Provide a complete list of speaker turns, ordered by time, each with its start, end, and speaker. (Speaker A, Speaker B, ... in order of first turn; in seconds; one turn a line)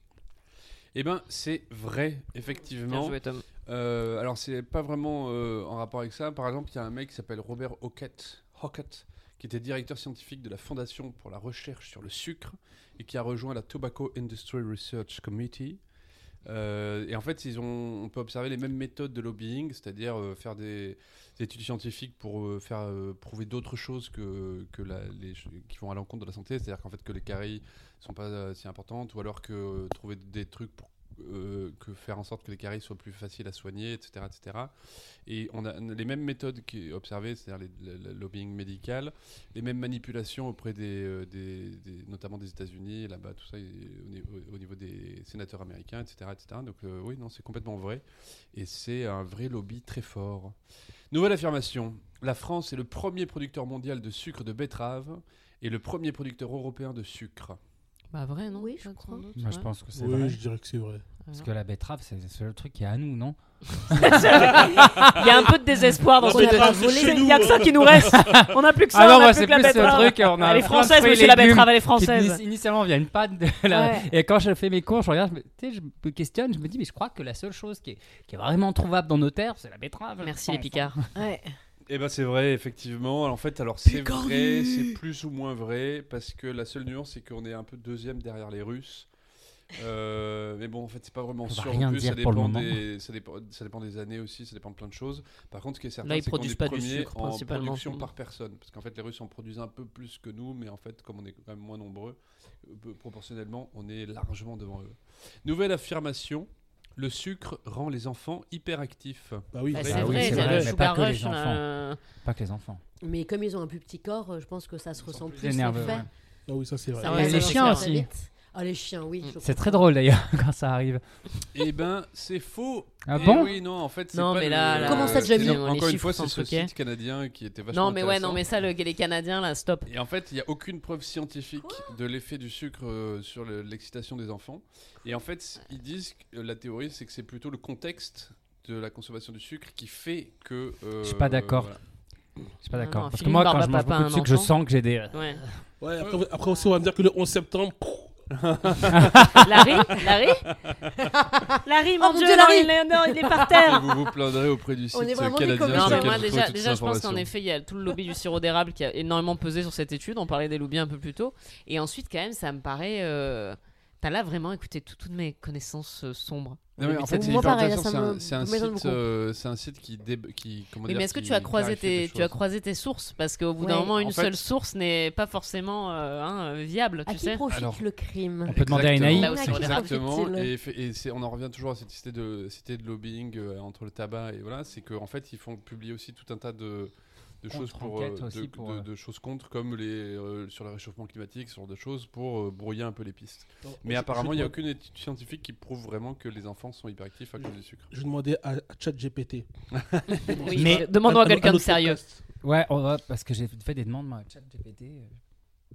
Speaker A: 0.9-15.8
Speaker B: 2.9-3.4
Speaker A: 16.4-50.6
Speaker A: 51.1-57.6
Speaker B: 58.1-59.7
Speaker C: 58.5-59.3
Speaker D: 59.4-60.4
Speaker E: 59.9-61.1
Speaker B: 61.2-61.5
Speaker D: 61.3-65.1
Speaker B: 63.9-72.4
Speaker E: 66.2-68.1
Speaker C: 66.2-67.6
Speaker D: 68.0-81.1
Speaker C: 73.7-74.0
Speaker B: 80.2-81.0
Speaker C: 81.1-81.5
Speaker A: 81.9-89.1
Speaker C: 83.8-85.0
Speaker A: 89.7-110.4
Speaker D: 91.5-92.8
Speaker B: 96.0-98.1
Speaker E: 109.5-110.7
Speaker B: 109.7-112.0
Speaker D: 109.8-112.8
Speaker C: 113.0-116.1
Speaker D: 115.2-116.1
Speaker E: 116.4-117.4
Speaker C: 117.0-119.8
Speaker B: 117.0-118.0
Speaker D: 117.1-118.1
Speaker D: 119.4-121.4
Speaker A: 121.5-128.4
Speaker D: 123.0-123.5
Speaker B: 123.2-123.5
Speaker B: 124.1-126.7
Speaker C: 124.8-125.6
Speaker B: 127.7-129.9
Speaker A: 129.8-141.8
Speaker C: 131.6-131.9
Speaker D: 141.0-145.6
Speaker B: 142.7-145.4
Speaker E: 145.8-148.8
Speaker A: 148.3-149.3
Speaker B: 149.4-150.5
Speaker A: 150.5-151.1
Speaker C: 151.2-153.8
Speaker B: 151.6-154.0
Speaker A: 153.6-157.3
Speaker C: 154.9-156.3
Speaker B: 155.7-167.6
Speaker A: 166.8-172.4
Speaker C: 166.8-169.0
Speaker B: 170.8-177.4
Speaker C: 173.6-173.9
Speaker A: 174.0-174.3
Speaker C: 177.1-180.5
Speaker A: 177.5-177.8
Speaker A: 178.4-197.9
Speaker D: 178.5-179.4
Speaker B: 179.1-179.8
Speaker D: 187.5-188.9
Speaker E: 193.6-194.6
Speaker E: 197.4-202.2
Speaker A: 199.8-200.4
Speaker B: 200.3-202.0
Speaker D: 200.5-200.9
Speaker D: 202.4-205.2